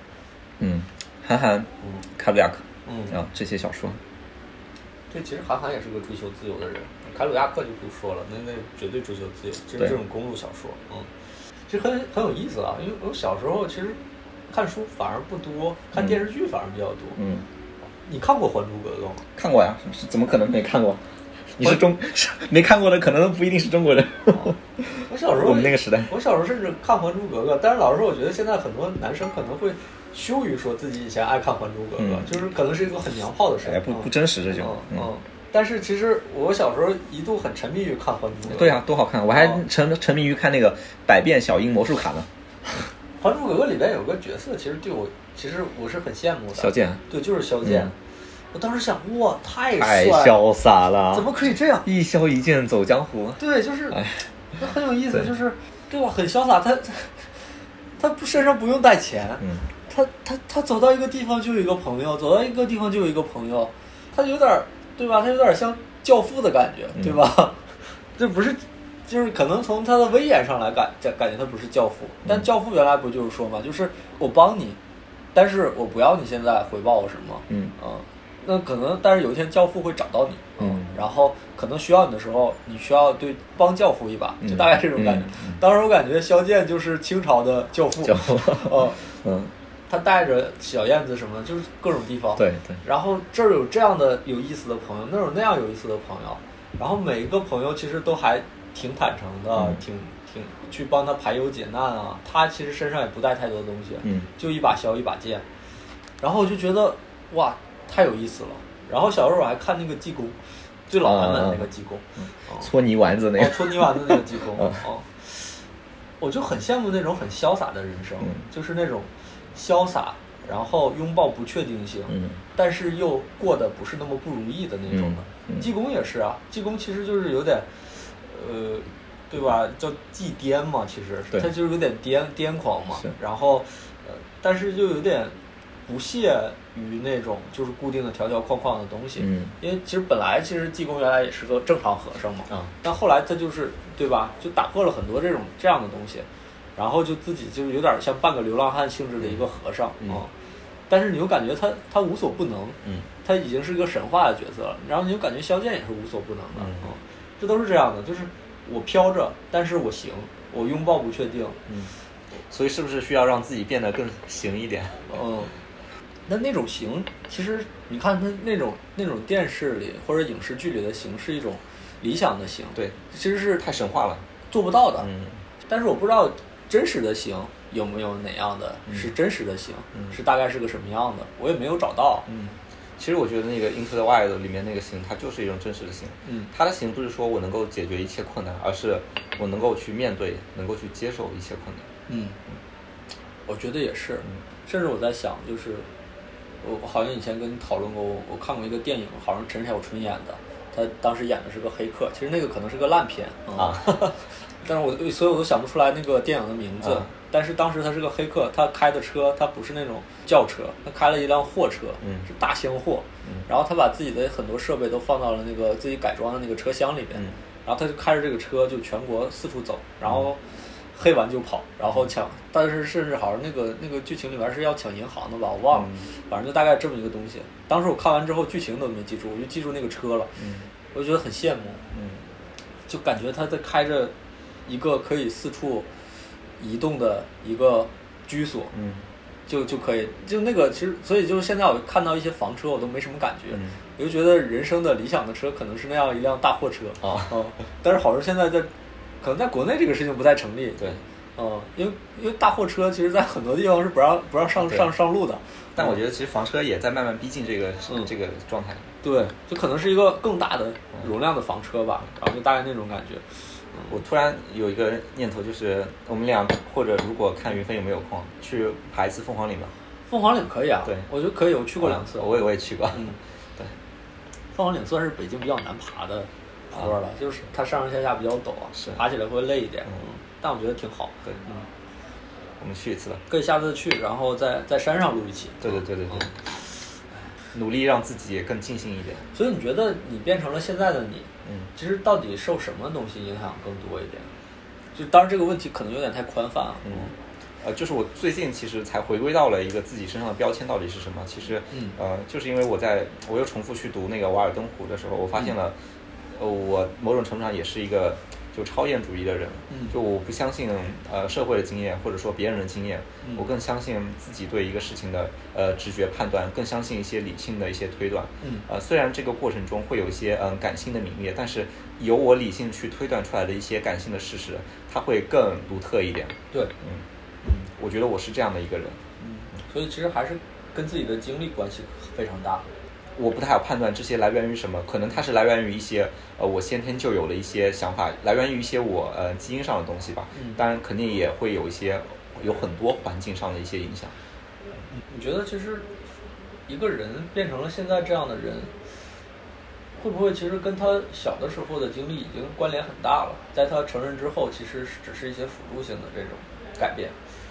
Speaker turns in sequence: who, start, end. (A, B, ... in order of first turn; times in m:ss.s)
0:00.6-0:04.0 A
0:02.8-0:03.1 B
0:05.1-0:11.1 B
0:11.7-0:14.0 B
0:14.5-0:17.2 B
0:17.2-0:17.5 A
0:18.0-0:19.2 B
0:19.4-0:26.1 A
0:25.1-0:38.8 B
0:32.0-0:32.4 A
0:33.6-0:35.1 A
0:38.5-0:42.9 A
0:39.3-0:39.6 B
0:43.2-0:47.9 B
0:46.6-0:47.0 A
0:47.6-0:47.9 A
0:48.5-0:50.4 B
0:49.8-0:51.3 A
0:51.1-0:51.9 B
0:51.8-0:54.3 A
0:53.4-0:54.0 B
0:54.5-1:14.8 B
0:59.4-0:59.7 A
1:15.3-1:29.0 B
1:17.5-1:17.7 A
1:20.6-1:21.0 A
1:24.4-1:25.6 A
1:28.0-1:29.5 A
1:29.9-1:45.4 B
1:32.4-1:32.8 A
1:44.0-1:44.3 A
1:46.2-1:52.7 B
1:51.0-1:51.7 A
1:52.2-1:54.8 A
1:53.4-1:55.6 B
1:56.2-2:15.3 B
2:02.1-2:02.4 A
2:04.9-2:05.7 A
2:15.9-2:30.3 B
2:19.2-2:19.5 A
2:30.9-2:41.6 B
2:36.6-2:36.9 A
2:42.5-2:45.1 A
2:45.1-2:45.6 B
2:46.3-2:53.7 B
2:53.6-2:54.2 A
2:54.5-2:55.1 B
2:55.0-2:55.4 A
2:55.6-3:02.3 B
3:02.3-3:11.9 A
3:12.1-3:12.4 B
3:13.5-3:15.9 B
3:16.6-3:50.4 B
3:23.6-3:24.2 A
3:26.8-3:27.1 A
3:32.0-3:32.3 A
3:45.7-3:46.1 A
3:50.4-3:50.7 A
3:50.9-3:51.9 B
3:51.9-3:52.2 A
3:52.9-3:54.1 B
3:54.7-3:55.9 B
3:56.6-3:58.7 B
3:58.7-3:59.1 A
3:59.5-4:08.7 B
4:03.5-4:03.8 A
4:07.0-4:07.3 A
4:09.2-4:15.9 B
4:10.8-4:11.0 A
4:14.6-4:14.9 A
4:15.7-4:18.9 A
4:19.0-4:24.0 B
4:23.9-4:29.7 A
4:30.1-4:32.4 B
4:31.8-4:33.7 A
4:32.9-4:33.2 B
4:34.5-4:41.7 B
4:38.7-4:39.0 A
4:42.6-4:43.2 A
4:43.3-4:46.4 B
4:45.6-4:46.3 A
4:47.5-4:49.3 A
4:49.3-4:54.3 B
4:51.4-4:51.7 A
4:54.9-4:57.1 B
4:56.8-5:05.8 A
5:01.7-5:02.0 B
5:06.3-5:27.0 A
5:18.4-5:18.6 B
5:27.4-5:27.7 B
5:27.8-5:29.0 A
5:29.2-5:32.7 B
5:33.2-5:44.1 A
5:40.3-5:40.6 B
5:44.9-5:45.9 B
5:46.7-5:48.7 B
5:50.0-5:57.1 B